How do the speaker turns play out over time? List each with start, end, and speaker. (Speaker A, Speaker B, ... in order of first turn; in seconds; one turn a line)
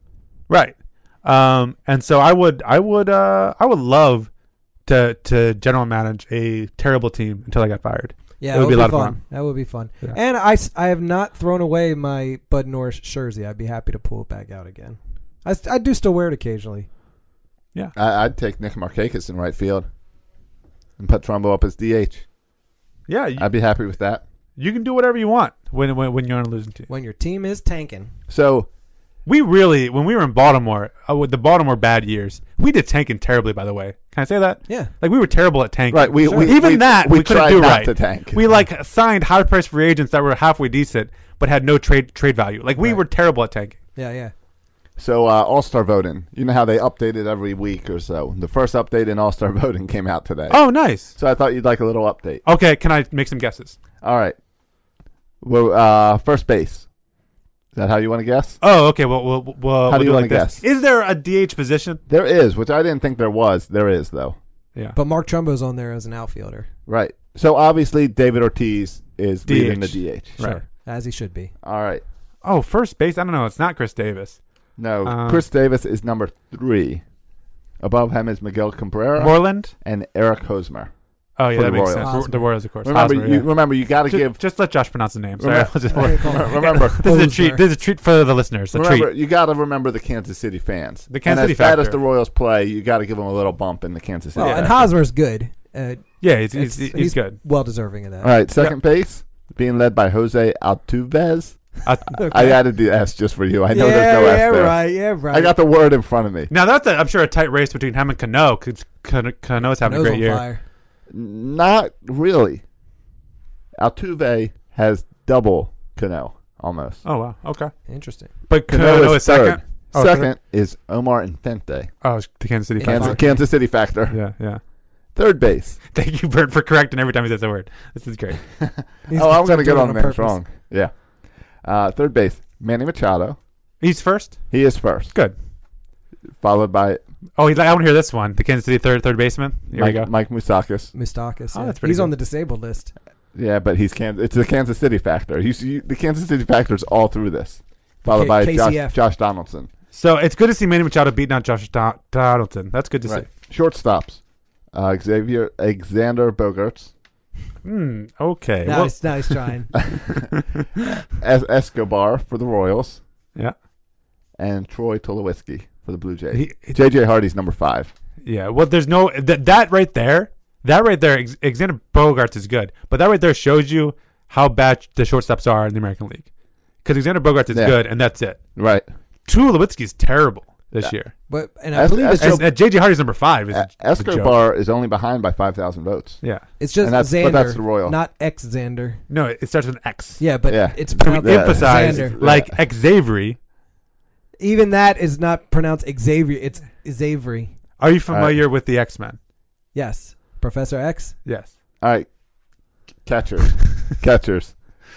Speaker A: 0.5-4.3
Speaker A: 4.8-9.2
Speaker B: 8.4-16.9
Speaker C: 17.9-19.9
Speaker C: 21.0-22.2
Speaker A: 23.1-23.5
Speaker C: 23.4-24.2
Speaker A: 24.6-26.9
Speaker B: 26.9-28.1
Speaker C: 28.3-28.7
Speaker A: 29.2-43.8
Speaker C: 35.9-38.4
Speaker B: 36.2-36.5
Speaker B: 44.0-44.3
Speaker C: 45.0-52.4
Speaker A: 50.5-51.1
Speaker A: 52.5-53.8
Speaker C: 54.0-54.4
Speaker C: 55.4-56.9
Speaker C: 57.7-58.6
Speaker A: 58.6-62.0
Speaker C: 59.9-60.6
Speaker C: 62.1-64.4
Speaker B: 64.9-66.7
Speaker C: 66.9-70.3
Speaker A: 69.5-70.6
Speaker B: 70.4-71.5
Speaker C: 71.6-72.0
Speaker A: 72.4-74.4
Speaker C: 74.8-77.0
Speaker A: 75.0-75.4
Speaker C: 77.8-80.9
Speaker A: 79.2-79.7
Speaker A: 81.4-89.1
Speaker C: 81.5-84.4
Speaker B: 82.0-82.5
Speaker C: 85.4-87.0
Speaker B: 85.9-87.6
Speaker C: 88.7-94.9
Speaker A: 91.1-92.0
Speaker B: 94.3-98.7
Speaker A: 94.4-94.7
Speaker A: 96.2-97.4
Speaker C: 98.2-106.5
Speaker A: 101.8-102.2
Speaker B: 102.1-102.6
Speaker B: 103.7-105.5
Speaker A: 106.5-110.4
Speaker B: 109.8-110.6
Speaker C: 111.1-112.6
Speaker C: 113.8-117.0
Speaker A: 117.0-117.7
Speaker B: 117.9-118.3
Speaker A: 118.5-120.3
Speaker C: 118.7-121.9
Speaker A: 122.0-124.6
Speaker C: 122.8-124.2
Speaker B: 122.8-123.4
Speaker C: 125.1-125.8
Speaker A: 125.9-128.5
Speaker C: 128.6-131.0
Speaker B: 129.1-130.4
Speaker C: 131.6-133.4
Speaker A: 133.8-135.3
Speaker C: 134.5-135.1
Speaker C: 136.4-137.0
Speaker A: 137.4-140.1
Speaker C: 139.7-140.9
Speaker B: 140.9-142.9
Speaker A: 141.5-142.1
Speaker C: 143.3-149.7
Speaker B: 148.1-149.0
Speaker A: 149.9-153.3
Speaker C: 153.1-154.2
Speaker C: 154.7-156.9
Speaker A: 157.6-159.4
Speaker B: 158.6-159.7
Speaker C: 161.2-163.0
Speaker C: 164.4-167.9
Speaker A: 166.3-166.8
Speaker A: 168.2-176.3
Speaker A: 176.8-178.4
Speaker C: 177.5-177.8
Speaker C: 178.5-178.8
Speaker A: 179.2-181.1
Speaker B: 181.3-182.4
Speaker C: 181.7-182.7
Speaker A: 182.2-184.3
Speaker C: 183.5-187.9
Speaker A: 186.2-186.5
Speaker B: 186.6-189.0
Speaker A: 189.1-190.2
Speaker B: 190.2-192.2
Speaker C: 190.5-192.6
Speaker A: 190.9-193.4
Speaker B: 194.4-197.5
Speaker A: 197.8-199.2
Speaker C: 198.1-198.4
Speaker B: 199.7-201.2
Speaker A: 201.2-201.5
Speaker C: 201.8-202.1
Speaker C: 203.0-204.6